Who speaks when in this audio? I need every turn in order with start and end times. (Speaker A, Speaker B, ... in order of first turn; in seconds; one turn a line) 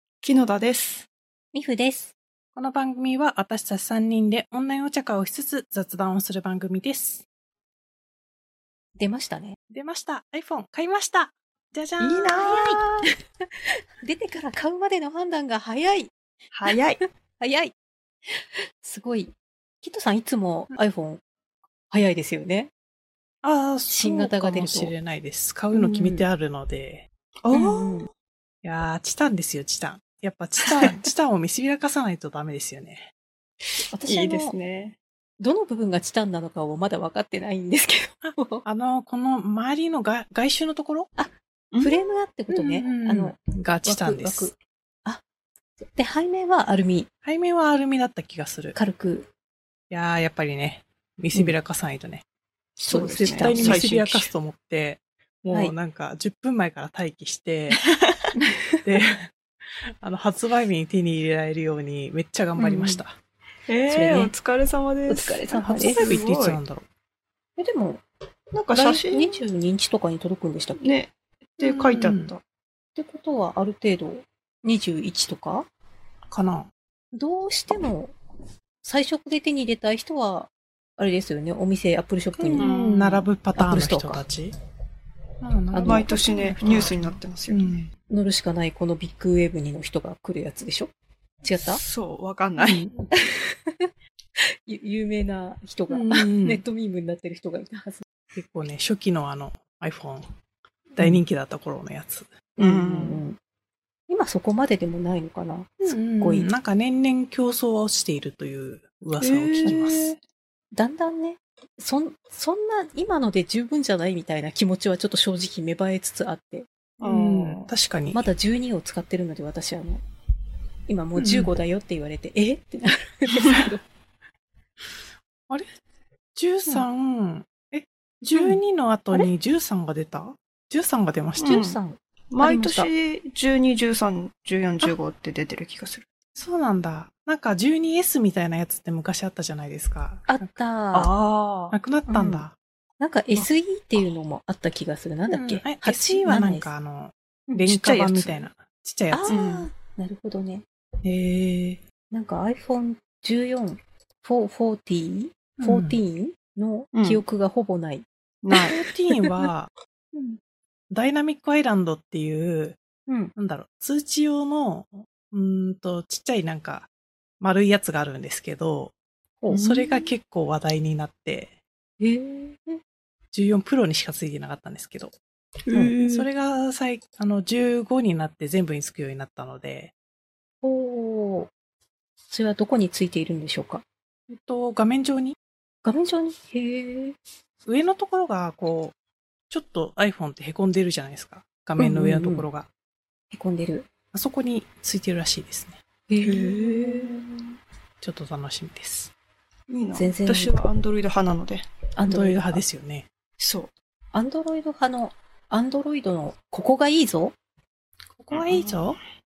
Speaker A: 0.2-1.1
Speaker B: 1.5-2.1
Speaker C: 2.5-7.2
Speaker B: 9.0-9.6
Speaker C: 9.7-12.8
Speaker B: 12.0-13.1
Speaker A: 12.2-12.9
Speaker B: 13.6-16.1
Speaker A: 16.5-17.0
Speaker B: 16.7-17.7
Speaker B: 18.3-21.2
Speaker B: 21.9-22.7
Speaker C: 23.4-27.1
Speaker B: 23.9-24.9
Speaker B: 25.7-26.3
Speaker A: 27.4-28.1
Speaker B: 27.5-28.1
Speaker C: 28.6-33.1
Speaker A: 30.7-30.9
Speaker B: 33.9-34.6
Speaker A: 34.1-35.0
Speaker B: 35.4-38.6
Speaker C: 38.2-41.1
Speaker B: 41.2-45.2
Speaker A: 41.7-42.2
Speaker C: 42.5-44.5
Speaker B: 45.8-47.1
Speaker C: 47.2-48.8
Speaker B: 48.8-49.3
Speaker C: 49.9-52.2
Speaker A: 52.8-54.0
Speaker B: 52.9-54.3
Speaker C: 53.3-57.8
Speaker A: 57.8-58.2
Speaker B: 58.4-58.8
Speaker C: 58.8-59.3
Speaker C: 60.0-63.2
Speaker B: 62.6-63.0
Speaker A: 63.7-66.6
Speaker B: 63.9-64.3
Speaker B: 65.1-66.1
Speaker C: 65.5-66.8
Speaker B: 67.6-68.0
Speaker A: 68.5-69.4
Speaker B: 68.7-70.8
Speaker A: 70.8-72.4
Speaker C: 71.6-72.3
Speaker B: 73.0-75.7
Speaker C: 76.3-76.7
Speaker B: 77.1-78.2
Speaker B: 78.8-82.7
Speaker C: 82.4-84.5
Speaker A: 82.6-83.2
Speaker B: 83.5-84.2
Speaker C: 85.4-87.9
Speaker B: 85.7-86.2
Speaker A: 85.8-87.8
Speaker B: 88.1-90.9
Speaker B: 91.4-91.8
Speaker A: 91.6-92.8
Speaker C: 92.6-92.9
Speaker B: 93.0-98.1
Speaker C: 95.9-96.6
Speaker C: 98.3-100.3
Speaker C: 101.0-102.3
Speaker B: 102.6-103.4
Speaker A: 102.6-103.2
Speaker B: 104.1-106.5
Speaker C: 105.8-110.1
Speaker A: 109.2-110.2
Speaker B: 110.7-116.7
Speaker A: 117.0-117.7
Speaker C: 117.0-118.3
Speaker B: 118.1-120.0
Speaker B: 120.9-123.8
Speaker C: 121.2-121.5
Speaker C: 126.3-131.6
Speaker A: 131.4-131.8
Speaker B: 131.5-132.9
Speaker A: 132.3-136.1
Speaker C: 136.4-140.5
Speaker B: 140.3-141.1
Speaker A: 140.9-141.8
Speaker C: 141.7-142.6
Speaker B: 142.1-142.4
Speaker B: 143.0-146.7
Speaker C: 145.3-149.3
Speaker A: 147.7-148.5
Speaker B: 149.1-150.7
Speaker A: 149.3-149.7
Speaker C: 151.0-151.8
Speaker B: 152.1-158.1
Speaker C: 155.6-156.0
Speaker A: 156.9-157.2
Speaker A: 158.4-158.8
Speaker B: 158.7-159.5
Speaker C: 158.7-159.7
Speaker C: 160.9-162.8
Speaker B: 163.1-163.3
Speaker C: 163.3-166.9
Speaker C: 167.4-168.9
Speaker B: 169.4-169.7
Speaker A: 169.5-170.0
Speaker C: 169.6-171.5
Speaker B: 172.0-172.8
Speaker C: 173.3-175.2
Speaker A: 175.7-176.3
Speaker C: 175.7-179.9
Speaker B: 180.6-181.5
Speaker B: 182.3-183.8
Speaker C: 184.3-185.4
Speaker B: 185.8-187.2
Speaker C: 187.7-188.9
Speaker C: 189.5-192.7
Speaker B: 191.8-192.5
Speaker B: 193.3-193.9
Speaker C: 194.1-197.0
Speaker B: 196.1-197.2
Speaker A: 196.3-197.1
Speaker C: 198.0-199.1
Speaker A: 199.7-201.7
Speaker B: 199.9-200.6
Speaker B: 202.0-202.6
Speaker C: 202.1-203.1
Speaker A: 203.4-203.7
Speaker B: 204.1-207.3
Speaker C: 208.2-209.0
Speaker A: 208.3-208.9